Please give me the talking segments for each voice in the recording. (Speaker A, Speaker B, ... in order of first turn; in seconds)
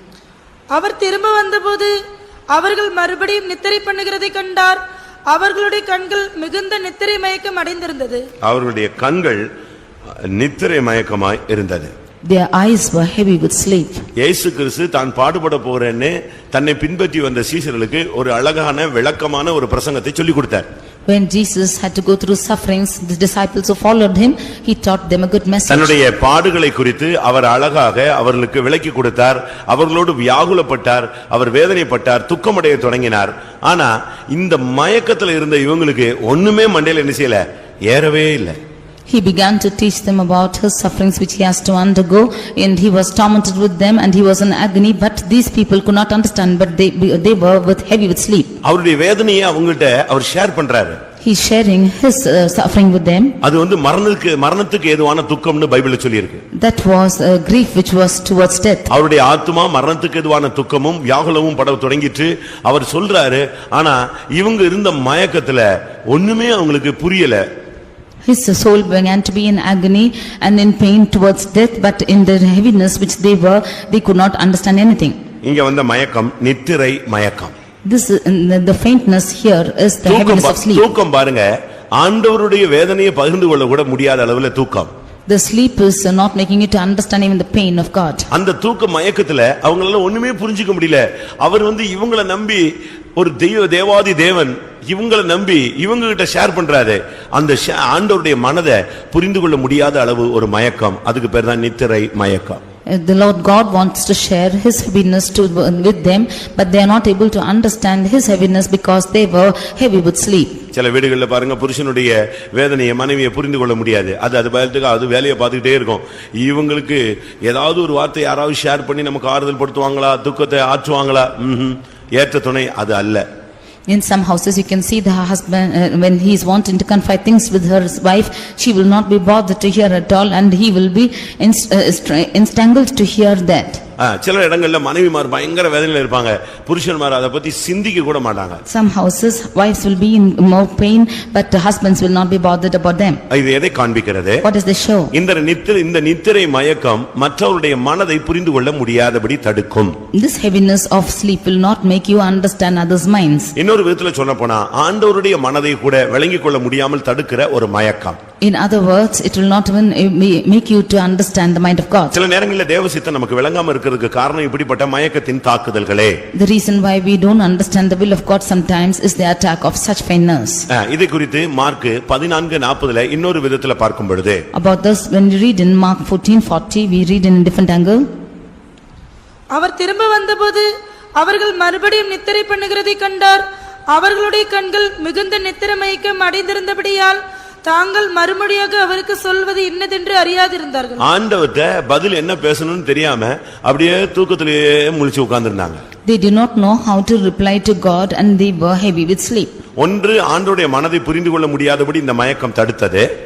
Speaker A: 0.7-1.9, 2.5-8.3, 179.5-191.0
Speaker B: 8.4-9.4, 10.2-11.9, 14.2-20.6, 25.7-38.6, 48.6-51.0, 53.4-56.4, 58.9-67.4, 75.4-77.5, 80.0-84.9, 88.3-102.6, 110.7-123.2, 134.0-138.6, 143.3-144.4, 145.1-149.9, 153.6-158.2, 162.1-166.2, 170.7-174.4, 191.0-195.8, 199.8-203.1
Speaker C: 12.2-14.0, 21.1-25.9, 39.1-48.5, 51.2-53.3, 56.5-58.9, 68.2-75.2, 77.8-80.9, 85.3-88.3, 102.9-110.6, 123.9-133.8, 138.7-143.2, 144.4-145.1, 150.1-153.5, 158.4-162.2, 166.3-170.7, 174.5-178.0, 196.1-199.5